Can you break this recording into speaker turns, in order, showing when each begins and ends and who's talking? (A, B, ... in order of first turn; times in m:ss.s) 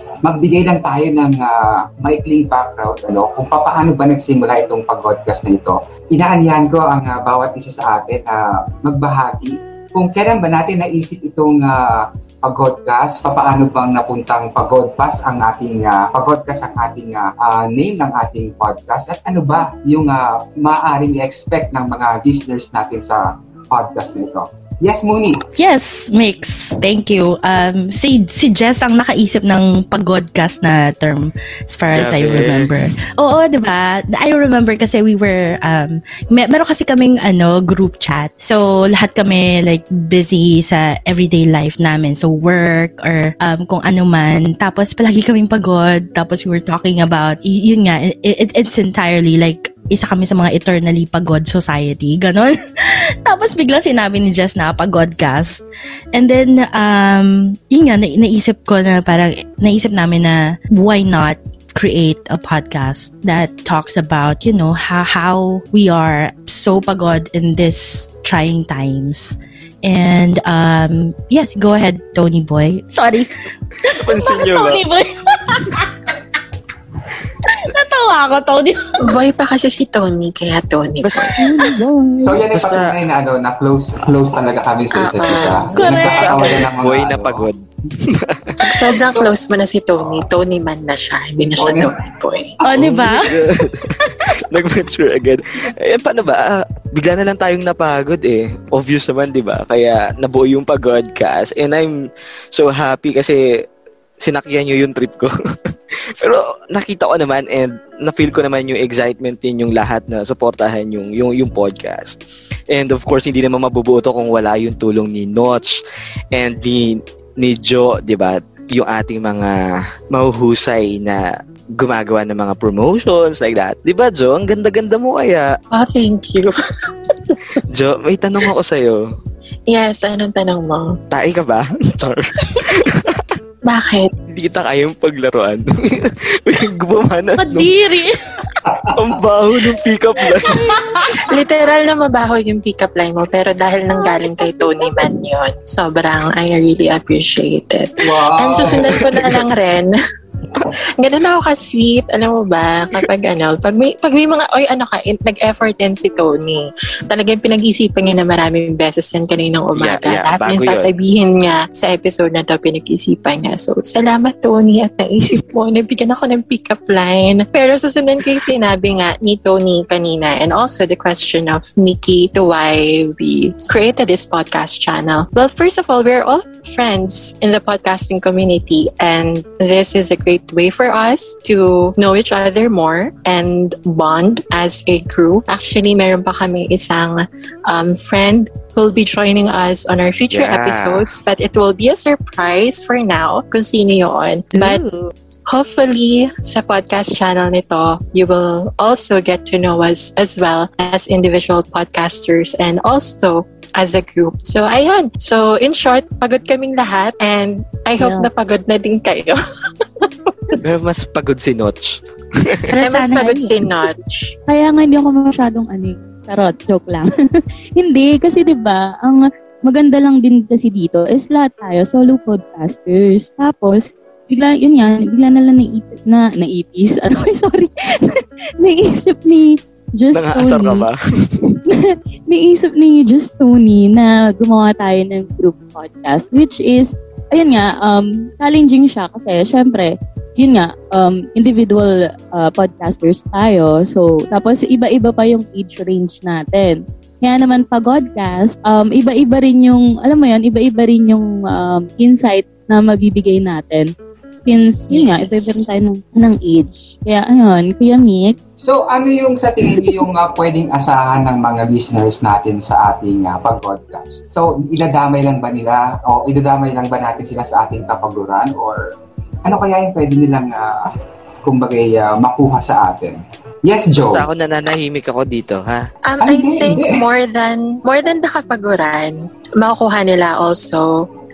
0:00.2-0:25.4 A
0:25.6-1:16.1 B
0:32.0-0:32.7 C
1:13.8-1:14.8 C
1:17.4-1:19.2 B
1:19.0-1:21.4 D
1:21.0-1:21.3 C
1:21.5-1:22.4 E
1:22.2-1:27.5 A
1:22.5-1:23.0 C
1:25.0-1:25.7 D
1:25.7-1:26.7 B
1:25.9-1:29.0 C
1:28.6-1:32.6 D
1:31.6-1:32.0 A
1:32.6-1:34.1 B
1:32.8-1:41.9 C
1:42.5-1:43.4 C
1:44.2-1:45.3 C
1:46.2-1:52.2 C
1:52.7-1:55.8 C
1:56.3-1:59.6 C
2:00.1-2:01.2 C
2:01.8-2:05.5 C
2:05.7-2:06.5 D
2:07.1-2:07.6 D
2:07.7-2:09.0 C
2:09.7-2:10.9 D
2:11.1-2:13.3 C
2:13.6-2:14.1 D
2:14.3-2:17.7 C
2:17.4-2:18.5 B
2:18.9-2:20.7 C
2:21.1-2:29.9 D
2:24.2-2:24.7 B
2:28.0-2:29.4 A
2:30.7-3:14.8 D
2:39.8-2:40.9 C
3:10.3-3:11.1 C
3:15.5-3:29.4 D
3:28.0-3:28.3 E
3:30.0-3:30.6 D
3:30.6-3:32.6 C
3:32.7-3:33.5 B
3:32.8-3:34.3 D
3:34.5-3:50.8 E
3:50.1-3:51.3 C
3:51.6-4:13.9 E
4:14.4-4:18.4 E
4:14.9-4:15.6 D
4:18.6-4:28.8 A
4:19.6-4:20.0 E
4:29.4-4:30.7 A
4:31.4-4:34.3 A
4:34.0-4:35.8 C
4:36.0-4:41.0 D
4:36.2-4:37.0 A